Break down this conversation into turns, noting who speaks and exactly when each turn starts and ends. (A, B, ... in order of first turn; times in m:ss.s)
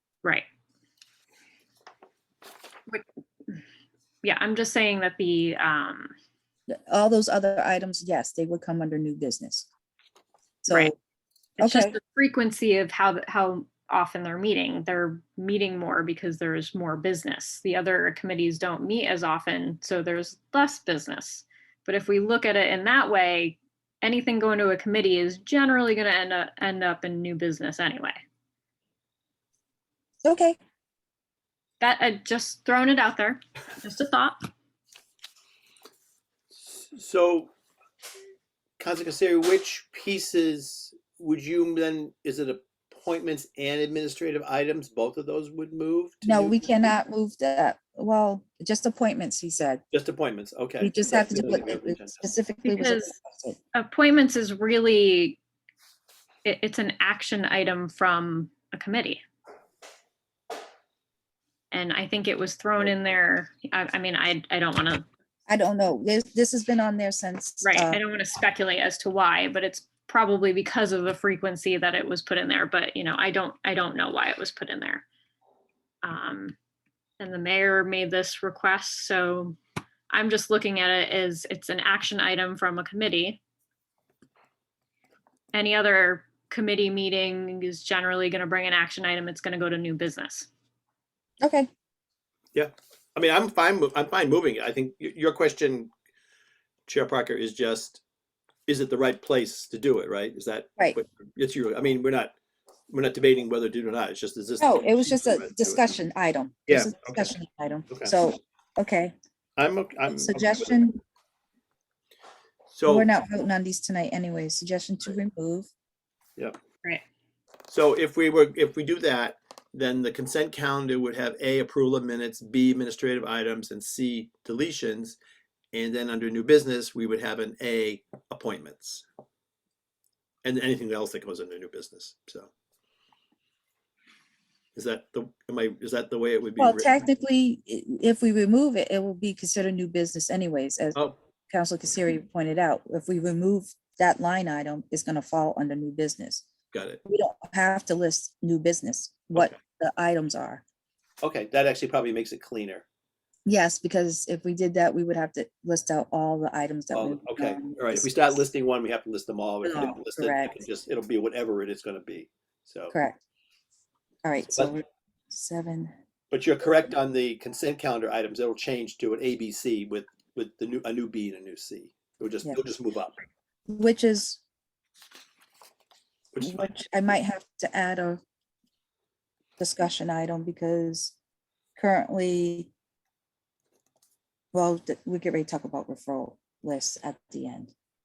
0:02.9-0:03.6 A
0:04.2-0:06.1 A
0:06.9-0:09.7 B
0:10.6-0:11.0 B
0:11.6-0:12.0 B
0:11.6-0:28.2 A
0:30.2-0:30.6 B
0:31.8-0:34.4 A
0:36.5-0:37.5 C
0:38.8-0:46.9 C
0:46.2-0:49.8 B
0:49.9-0:52.2 C
0:50.8-0:53.6 B
0:52.6-0:53.1 A
0:53.7-0:55.4 A
0:56.4-0:59.2 A
1:01.7-1:05.0 A
1:05.5-1:08.0 B
1:07.6-1:15.0 A
1:16.0-1:16.5 A
1:17.2-1:19.6 A
1:20.1-1:23.4 A
1:25.5-1:30.5 A
1:31.4-1:31.7 B
1:32.5-1:35.9 C
1:36.8-1:38.0 C
1:38.7-1:42.3 C
1:42.9-1:46.0 C
1:44.6-1:49.1 B
1:46.7-1:47.3 C
1:47.9-1:48.1 C
1:49.6-1:50.8 C
1:50.1-1:51.0 B
1:52.7-1:53.1 C
1:52.8-1:55.7 B
1:57.7-2:05.2 C
2:05.7-2:09.0 C
2:10.4-2:12.5 C
2:14.7-2:17.0 C
2:16.6-2:21.0 B
2:21.5-2:26.4 B
2:26.7-2:27.0 C
2:27.0-2:30.6 B
2:31.2-2:32.8 C
2:33.4-2:38.4 B
2:36.9-2:42.9 C
2:39.6-2:40.6 B
2:42.9-2:43.2 B
2:44.2-2:46.0 B
2:46.3-2:53.2 C
2:53.7-2:54.4 B
2:56.3-2:56.8 C
2:56.4-2:58.2 B
2:59.6-3:01.1 B
3:01.8-3:02.7 B
3:04.5-3:07.7 B